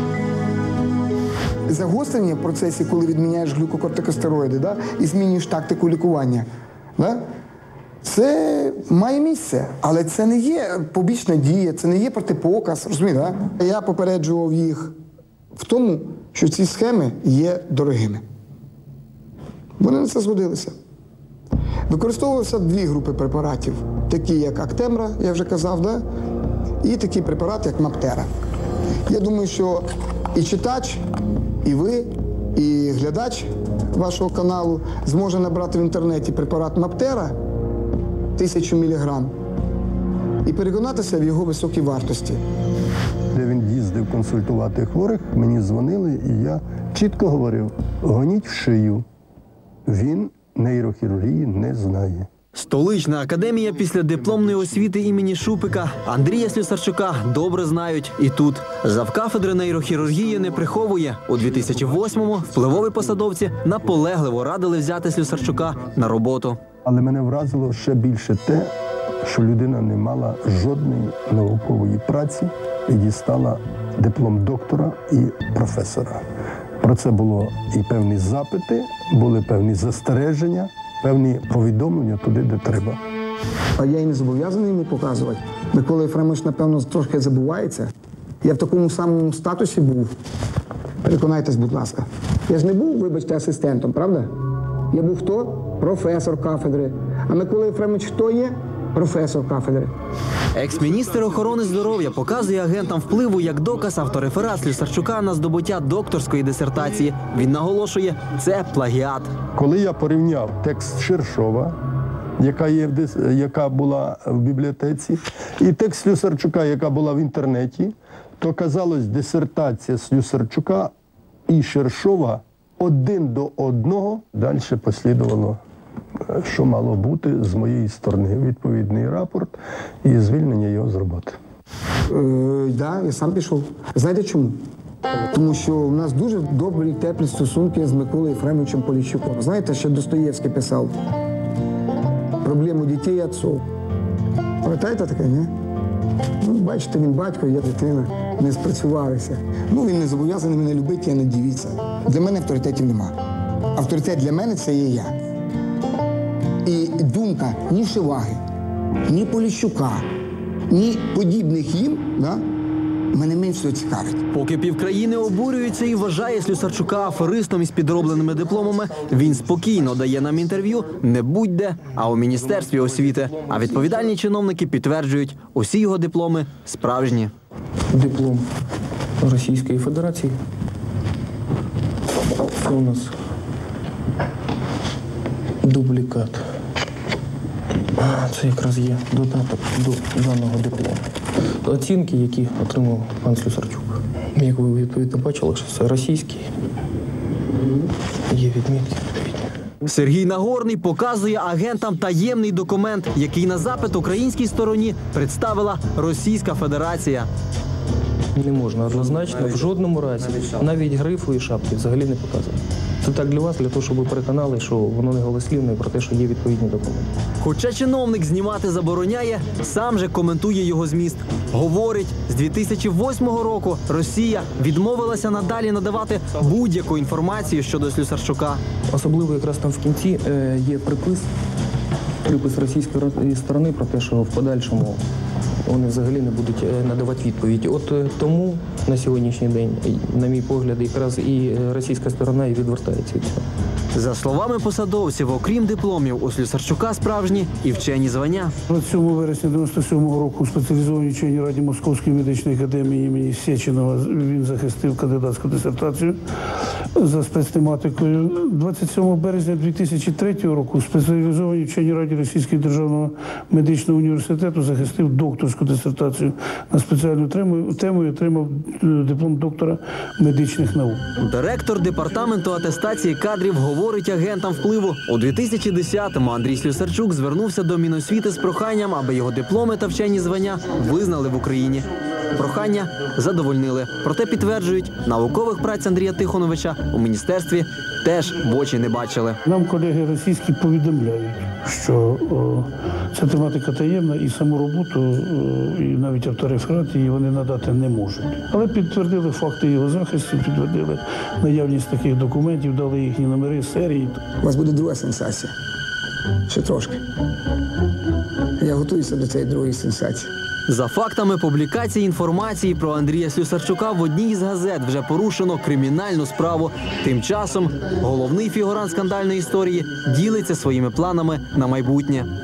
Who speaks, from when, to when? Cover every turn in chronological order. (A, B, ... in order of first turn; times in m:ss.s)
0:01.7-0:06.4 A
0:08.0-0:14.9 A
0:15.6-0:18.2 A
0:19.8-0:20.7 A
0:21.9-0:26.0 A
0:26.8-0:28.3 A
0:29.1-0:31.0 A
0:31.6-0:37.3 A
0:38.4-0:39.3 A
0:40.4-0:42.4 A
0:43.3-0:49.0 B
0:49.9-0:52.3 B
0:52.5-1:06.6 C
1:06.8-1:08.7 B
1:09.2-1:16.2 B
1:16.8-1:23.0 B
1:23.8-1:27.9 A
1:28.4-1:30.1 A
1:31.0-1:34.3 A
1:34.9-1:39.9 A
1:40.5-1:49.3 C
1:49.6-1:51.7 B
1:52.4-2:00.9 B
2:01.5-2:05.6 B
2:06.3-2:11.4 B
2:12.1-2:14.5 A
2:15.3-2:20.9 A
2:22.4-2:23.6 A
2:24.6-2:25.5 A
2:26.4-2:33.2 A
2:33.7-2:35.1 A
2:36.6-2:38.4 A
2:39.1-2:40.0 A
2:40.7-2:42.4 A
2:43.1-2:44.2 A
2:44.3-2:57.3 C
2:57.9-2:58.4 D
2:59.2-3:00.4 D
3:02.6-3:03.1 D
3:05.6-3:06.4 D
3:08.0-3:11.0 D
3:11.6-3:16.5 D
3:18.3-3:19.5 D
3:19.8-3:27.3 C
3:28.3-3:37.1 D
3:37.4-3:48.6 C
3:48.9-3:51.3 D
3:52.2-3:55.0 D
3:55.6-4:03.4 D
4:03.9-4:08.5 C
4:08.7-4:16.2 E
4:17.0-4:31.0 E
4:31.2-4:49.4 C
4:49.4-5:04.2 E
5:04.4-5:05.5 A
5:06.5-5:07.0 A
5:08.6-5:10.3 A
5:10.7-5:22.3 C